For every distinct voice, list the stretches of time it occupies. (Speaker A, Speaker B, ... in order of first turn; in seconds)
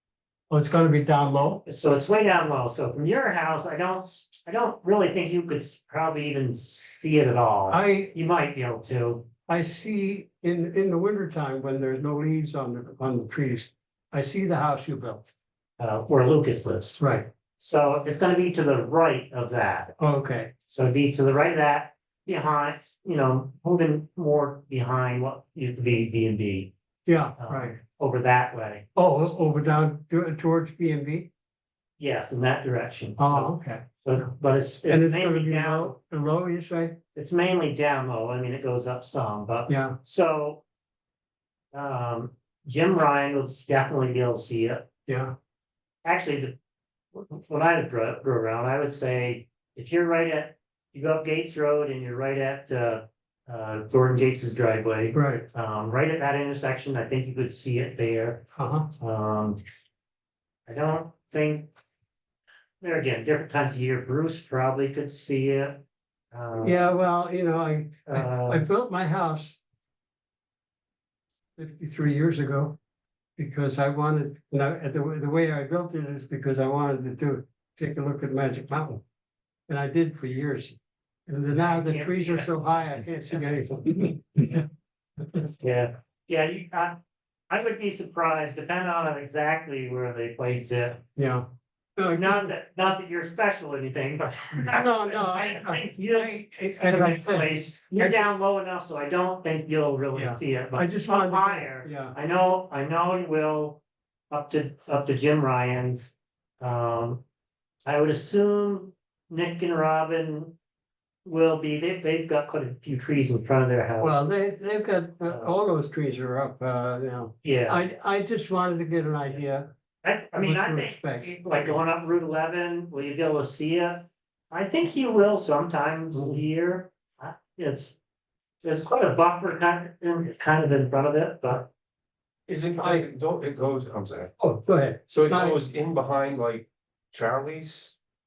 Speaker A: 0.5-1.6, 7.7-8.1, 9.5-15.3, 17.0-17.3, 20.0-20.5, 27.1-27.8, 28.9-31.3, 33.2-33.9, 34.9-37.0, 39.7-40.0, 45.1-45.4, 55.1-55.5, 58.6-58.9, 66.6-69.6, 71.6-72.8, 73.4-79.0, 79.7-84.7, 85.2-85.5, 91.2-92.5, 94.5-98.3, 100.2-102.2, 114.0-119.7, 120.4-121.8, 132.8-133.1, 134.4-135.6
Speaker B: 1.7-9.3, 15.8-17.0, 17.6-19.9, 20.7-26.7, 27.4-28.9, 32.0-36.0, 37.2-40.6, 41.7-44.9, 46.0-46.5, 47.1-58.4, 59.0-59.6, 60.7-61.7, 62.8-66.8, 68.1-68.7, 81.5-82.7, 85.6-87.0, 87.5-91.0, 92.1-107.2, 107.8-110.5, 111.2-114.2, 117.4-117.8, 120.0-128.0, 128.6-131.7
Speaker C: 132.5-134.3, 135.1-138.0